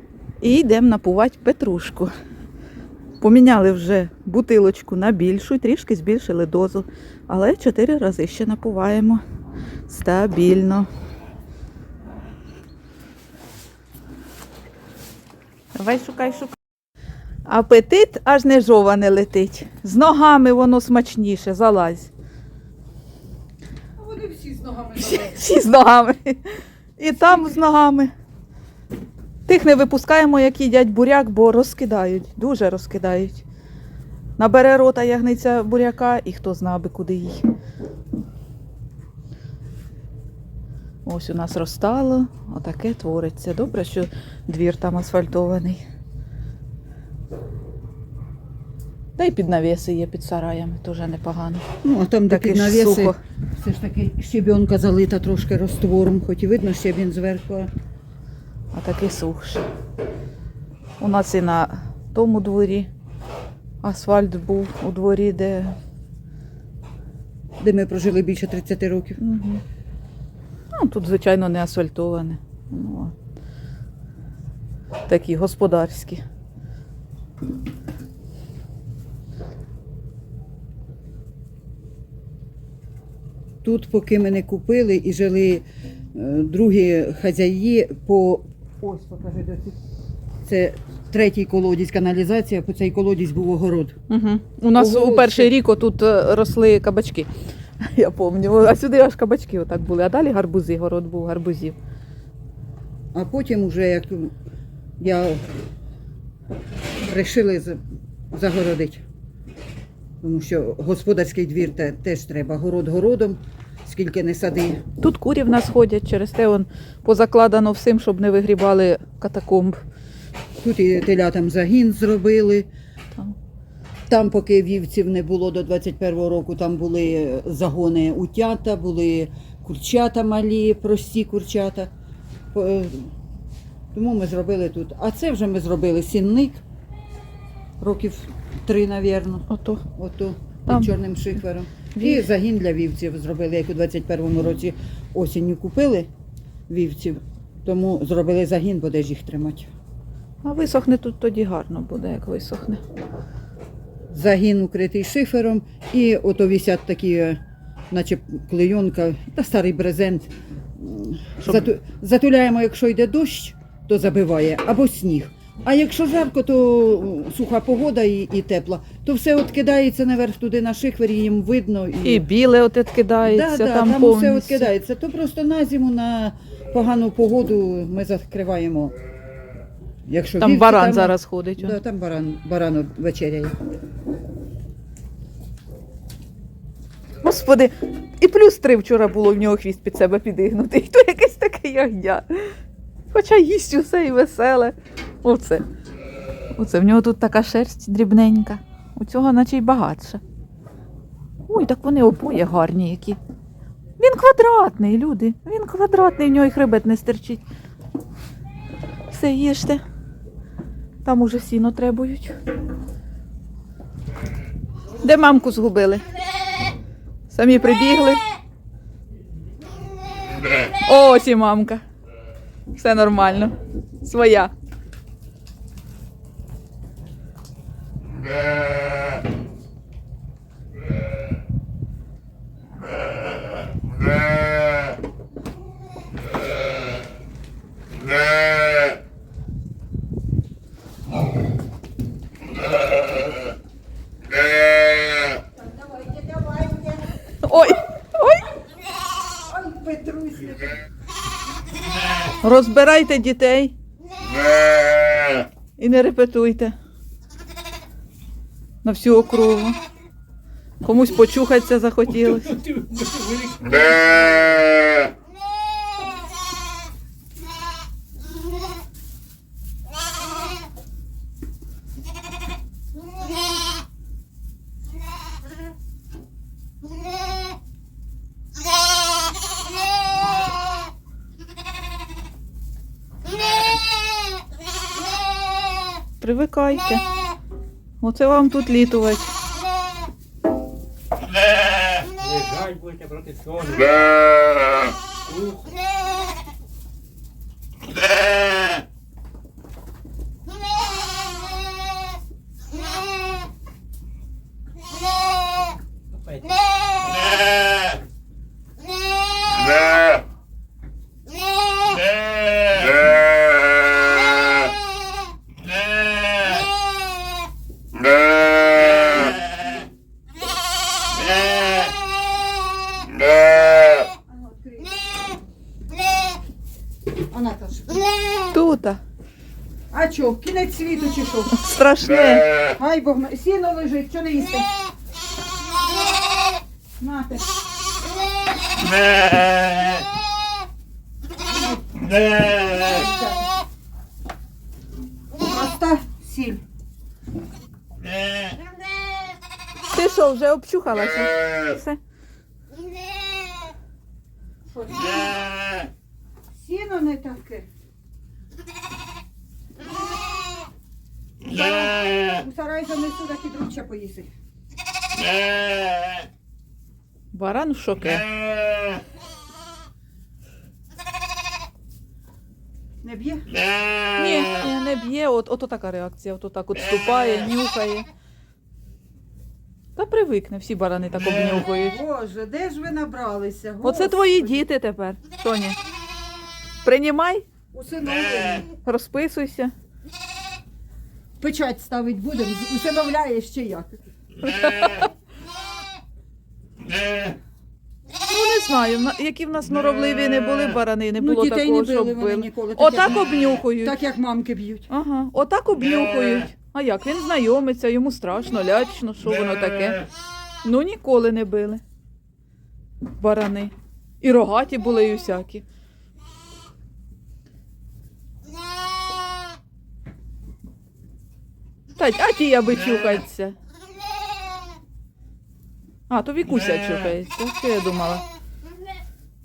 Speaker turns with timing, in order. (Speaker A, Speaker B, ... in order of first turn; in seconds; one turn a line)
Speaker A: 0.4-2.1
Speaker A: 3.2-9.2
Speaker A: 9.9-10.9
Speaker A: 15.7-16.6
Speaker A: 17.5-22.1
Speaker B: 24.0-25.4
Speaker A: 25.0-26.4
Speaker A: 27.0-28.1
Speaker B: 27.2-27.5
Speaker A: 29.5-33.5
Speaker A: 34.4-37.4
Speaker A: 41.0-45.8
Speaker A: 49.2-51.6
Speaker B: 51.8-57.7
Speaker A: 52.3-53.2
Speaker A: 58.7-59.6
Speaker A: 61.0-62.9
Speaker A: 63.8-65.8
Speaker B: 67.6-69.2
Speaker A: 69.2-69.6
Speaker A: 70.7-73.1
Speaker A: 75.1-76.2
Speaker B: 83.6-89.8
Speaker B: 90.5-94.0
Speaker A: 94.1-97.3
Speaker B: 94.8-95.5
Speaker A: 97.8-101.8
Speaker B: 103.1-104.3
Speaker B: 105.0-105.4
Speaker B: 107.1-107.8
Speaker B: 108.3-109.0
Speaker B: 110.2-114.8
Speaker A: 115.0-119.8
Speaker B: 120.6-122.7
Speaker B: 124.1-131.9
Speaker B: 132.5-133.1
Speaker B: 133.9-136.6
Speaker B: 137.8-139.4
Speaker A: 139.5-139.8
Speaker B: 139.9-146.1
Speaker A: 140.7-140.9
Speaker A: 141.9-142.2
Speaker B: 146.7-149.7
Speaker A: 150.4-152.8
Speaker B: 154.1-157.4
Speaker B: 157.9-172.2
Speaker A: 172.0-174.7
Speaker B: 173.2-178.9
Speaker B: 180.1-183.6
Speaker A: 180.4-181.8
Speaker A: 187.2-192.6
Speaker A: 193.1-195.6
Speaker A: 196.5-200.2
Speaker A: 201.5-203.2
Speaker A: 204.0-207.4
Speaker A: 209.1-209.8
Speaker A: 211.0-212.3
Speaker A: 215.0-216.0
Speaker A: 217.3-218.2
Speaker A: 220.8-221.8
Speaker A: 222.8-224.5
Speaker B: 245.7-247.1
Speaker A: 247.4-248.5
Speaker B: 249.4-250.8
Speaker A: 252.4-253.7
Speaker A: 255.8-256.8
Speaker A: 258.8-259.8
Speaker A: 260.8-262.6
Speaker C: 262.2-264.7
Speaker A: 286.2-287.0
Speaker A: 288.0-289.3
Speaker C: 292.2-294.3
Speaker C: 295.2-295.7
Speaker C: 306.1-306.5
Speaker B: 324.3-325.1
Speaker B: 327.3-328.1
Speaker A: 328.5-329.0
Speaker B: 329.9-331.6
Speaker A: 331.5-332.5
Speaker B: 332.7-334.7
Speaker B: 337.0-337.5
Speaker B: 342.5-343.5
Speaker B: 345.3-346.6
Speaker A: 349.9-352.0
Speaker B: 354.7-355.6
Speaker B: 356.6-357.7
Speaker B: 361.4-364.3
Speaker A: 367.3-368.3
Speaker B: 373.0-373.5
Speaker A: 374.2-378.1
Speaker A: 380.0-382.0
Speaker B: 381.4-384.6
Speaker A: 383.8-385.8
Speaker A: 386.8-387.4
Speaker B: 387.7-388.7
Speaker A: 388.9-389.7
Speaker B: 391.4-394.0
Speaker A: 394.4-395.1
Speaker A: 398.3-404.0
Speaker B: 401.2-404.9
Speaker A: 404.9-410.1
Speaker A: 410.6-411.8
Speaker A: 413.2-415.6
Speaker A: 422.0-423.6
Speaker A: 426.1-428.2